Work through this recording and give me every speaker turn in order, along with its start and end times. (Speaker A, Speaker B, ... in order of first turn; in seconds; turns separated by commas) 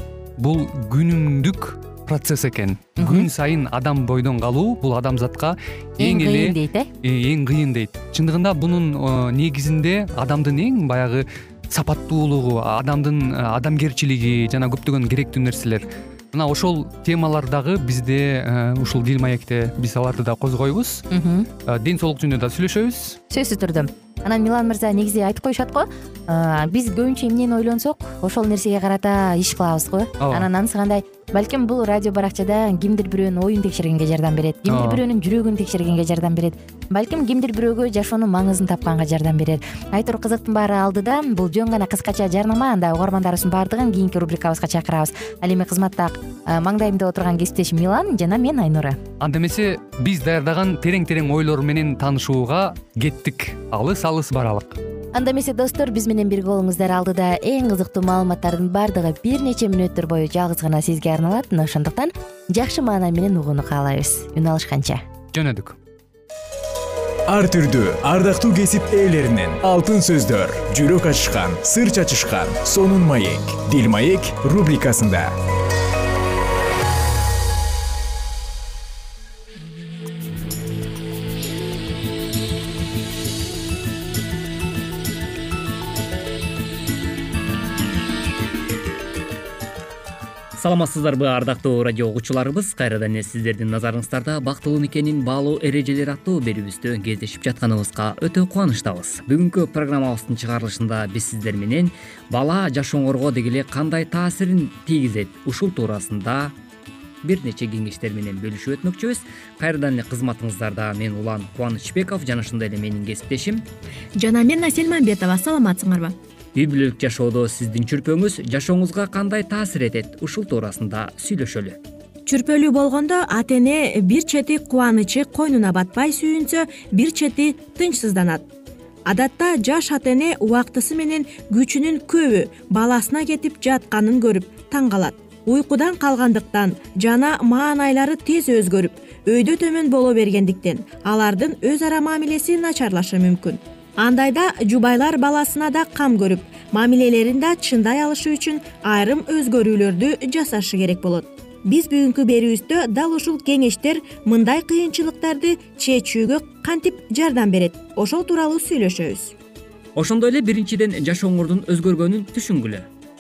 Speaker A: 0.4-21.0, Speaker B: 3.0-3.3, Speaker B: 6.0-6.9, Speaker B: 21.1-21.5, Speaker A: 21.7-23.2, Speaker B: 23.3-49.0, Speaker A: 30.2-30.5, Speaker A: 34.7-35.0, Speaker A: 49.2-54.8, Speaker B: 55.1-65.0, Speaker A: 65.3-65.8, Speaker C: 67.3-75.3, Speaker D: 90.6-106.5, Speaker D: 107.2-113.7, Speaker E: 114.2-116.2, Speaker D: 116.6-121.8, Speaker E: 122.3-128.4, Speaker E: 129.1-159.3, Speaker D: 159.9-162.9